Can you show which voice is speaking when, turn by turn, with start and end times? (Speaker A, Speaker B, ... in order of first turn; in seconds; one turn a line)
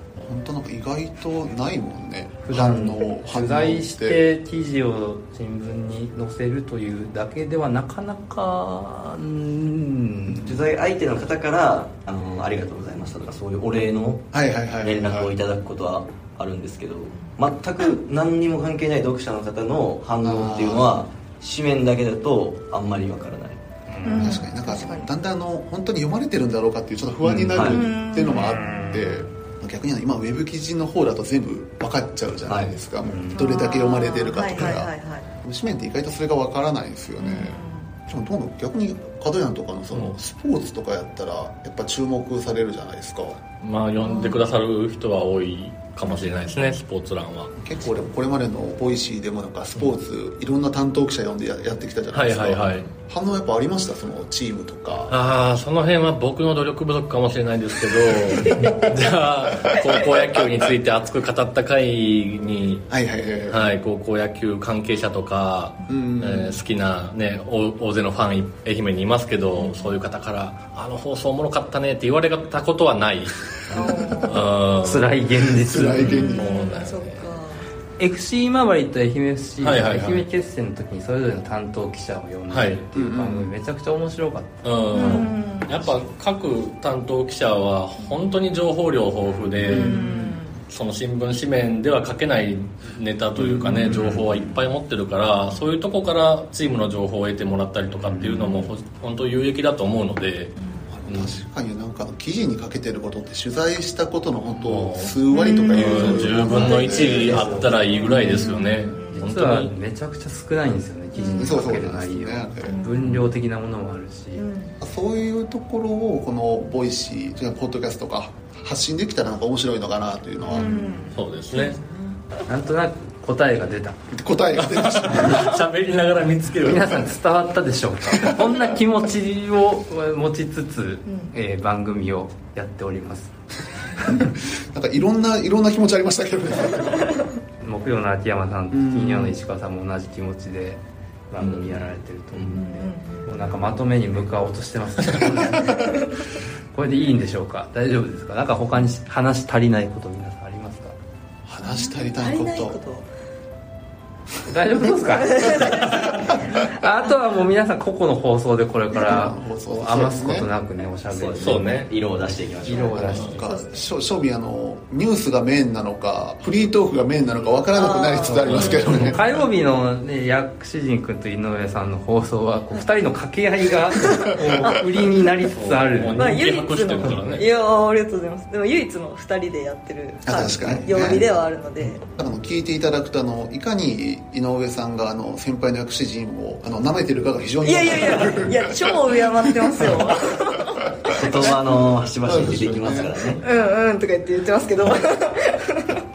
Speaker A: 0.2-4.2
Speaker B: 2.4-10.6
Speaker C: 10.3-23.6
Speaker A: 14.3-15.3
Speaker A: 20.2-20.9
Speaker B: 23.9-24.4
Speaker D: 24.1-25.1
Speaker A: 24.1-43.4
Speaker C: 27.2-27.8
Speaker D: 27.6-29.0
Speaker B: 28.3-29.2
Speaker C: 32.5-32.8
Speaker B: 33.0-33.6
Speaker D: 33.3-35.3
Speaker D: 37.2-38.0
Speaker E: 43.6-47.5
Speaker D: 44.0-44.4
Speaker D: 46.1-46.8
Speaker A: 47.6-55.2
Speaker E: 52.1-52.9
Speaker E: 55.1-62.9
Speaker D: 58.4-58.9
Speaker A: 62.9-63.7
Speaker E: 63.5-77.3
Speaker A: 65.9-66.6
Speaker D: 69.6-69.9
Speaker D: 73.7-74.5
Speaker B: 74.8-76.5
Speaker A: 75.6-76.3
Speaker D: 76.0-77.7
Speaker B: 78.0-85.2
Speaker E: 79.6-80.2
Speaker E: 82.5-82.8
Speaker A: 82.9-83.5
Speaker E: 84.6-90.0
Speaker D: 84.9-85.8
Speaker D: 89.7-90.6
Speaker A: 89.7-90.2
Speaker B: 89.7-90.2
Speaker E: 90.7-100.5
Speaker A: 93.6-94.2
Speaker B: 98.1-98.5
Speaker D: 100.6-100.9
Speaker A: 100.9-107.5
Speaker E: 104.6-105.2
Speaker D: 105.3-109.3
Speaker E: 105.7-109.7
Speaker B: 106.1-114.4
Speaker D: 111.2-111.6
Speaker A: 111.3-112.8
Speaker D: 112.6-113.2
Speaker D: 114.4-114.8
Speaker A: 114.8-120.7
Speaker D: 120.5-122.3
Speaker E: 121.1-121.8
Speaker B: 122.5-124.0
Speaker A: 124.1-125.6
Speaker E: 124.5-127.0
Speaker B: 126.6-133.3
Speaker D: 131.1-131.3
Speaker A: 134.1-137.1
Speaker B: 137.6-146.0
Speaker A: 138.7-139.4
Speaker C: 141.4-142.6
Speaker D: 142.5-143.4
Speaker B: 146.7-150.9
Speaker A: 151.4-152.8
Speaker D: 151.6-153.1
Speaker B: 154.4-161.9
Speaker D: 155.2-156.8
Speaker A: 159.0-160.5
Speaker C: 161.0-162.9
Speaker E: 161.4-161.9
Speaker B: 162.6-163.6
Speaker D: 162.7-163.8
Speaker A: 162.9-169.4
Speaker E: 163.1-163.3
Speaker D: 167.7-169.0
Speaker E: 168.4-169.2
Speaker B: 168.9-176.2
Speaker D: 174.0-175.2
Speaker E: 175.5-177.5
Speaker D: 176.2-182.0
Speaker A: 180.3-181.3
Speaker A: 182.1-189.1
Speaker D: 187.6-191.7
Speaker A: 190.7-191.1
Speaker C: 191.2-193.4
Speaker A: 192.2-193.2
Speaker D: 193.4-196.0